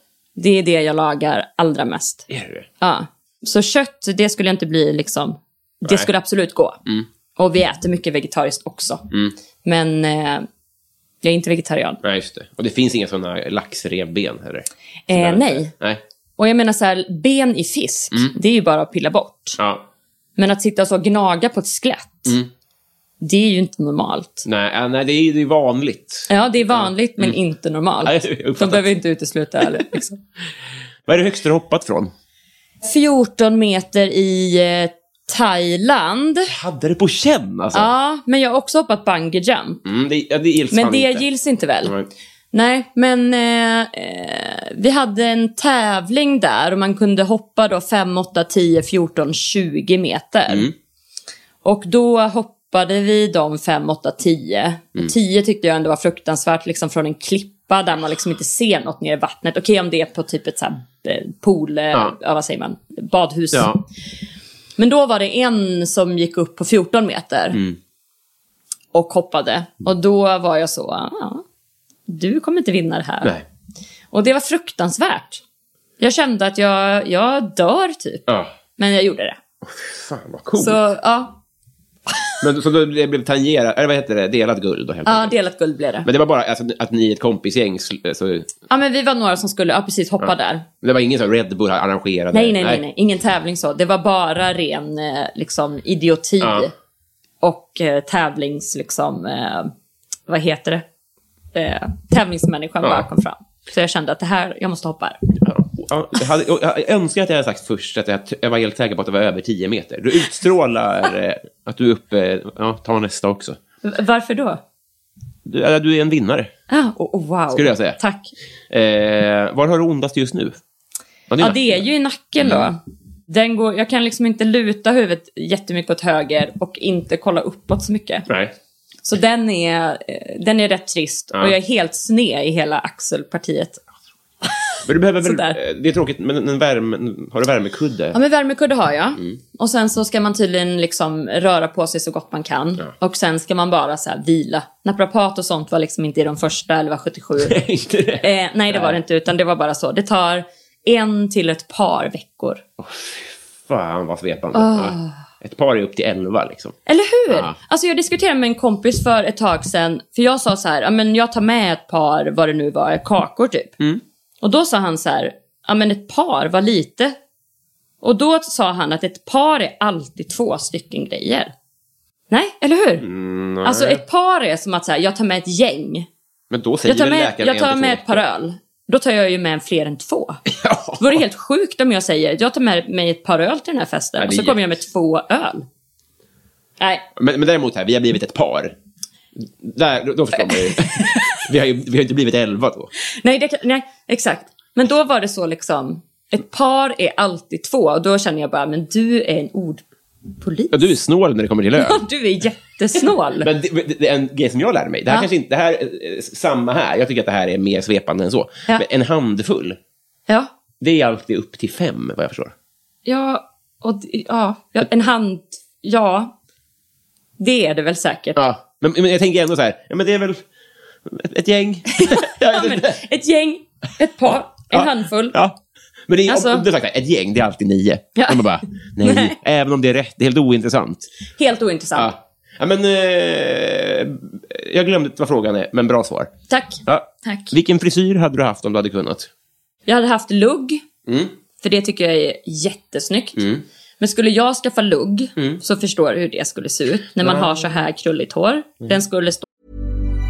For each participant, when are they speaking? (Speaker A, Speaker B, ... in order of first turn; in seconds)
Speaker A: 0.3-2.3, 2.8-6.8, 7.3-9.0, 9.6-10.4, 11.2-12.0, 15.1-15.7, 16.4-19.6, 20.4-22.4, 23.2-24.4, 26.3-30.2, 32.8-36.5, 37.7-39.8, 40.7-41.9, 42.5-50.7, 51.6-63.7, 64.8-67.6, 68.9-71.4, 72.1-73.4, 74.1-75.4, 76.0-79.4, 80.6-81.4, 85.0-86.1, 88.7-90.7, 92.3-96.7, 97.4-99.7, 100.3-100.8, 101.5-105.2, 113.8-114.6, 116.7-118.3, 121.4-122.8, 123.3-128.3, 129.0-133.8, 134.4-135.6, 138.1-147.6, 148.2-152.6, 154.5-155.2, 156.8-163.7, 164.4-167.2, 168.0-171.5, 172.3-173.0, 173.6-176.1, 176.9-180.4, 181.0-185.6, 186.8-187.1, 190.4-191.4, 193.1-199.8, 200.4-200.9, 201.8-203.5, 213.1-216.3, 217.4-218.4, 222.0-225.3, 226.3-226.6, 228.2-229.3, 231.4-232.1, 236.5-237.5, 239.9-240.8, 241.6-243.4, 244.0-249.4
Speaker B: 2.3-2.7, 12.0-16.0, 19.6-19.8, 24.4-27.4, 28.0-28.9, 29.6-29.9, 31.1-32.1, 36.5-37.9, 39.8-41.2, 41.8-42.1, 50.5-50.7, 63.5-63.8, 67.5-67.8, 78.3-78.5, 79.6-80.8, 82.4-85.3, 86.0-88.5, 90.8-92.8, 96.4-96.7, 105.3-113.6, 115.4-116.5, 117.5-118.0, 118.7-120.6, 121.3-121.8, 122.4-122.7, 128.3-128.5, 134.8-138.2, 147.4-148.9, 152.8-156.8, 157.3-157.6, 173.0-174.0, 176.5-178.2, 180.5-181.2, 184.2-184.6, 187.1-188.8, 189.3-192.9, 200.7-202.0, 203.4-209.8, 210.8-212.5, 218.3-220.4, 221.1-223.0, 224.7-231.1, 231.9-236.3, 236.8-239.3, 241.1-241.3, 243.3-243.6, 245.3-245.6, 247.2-247.5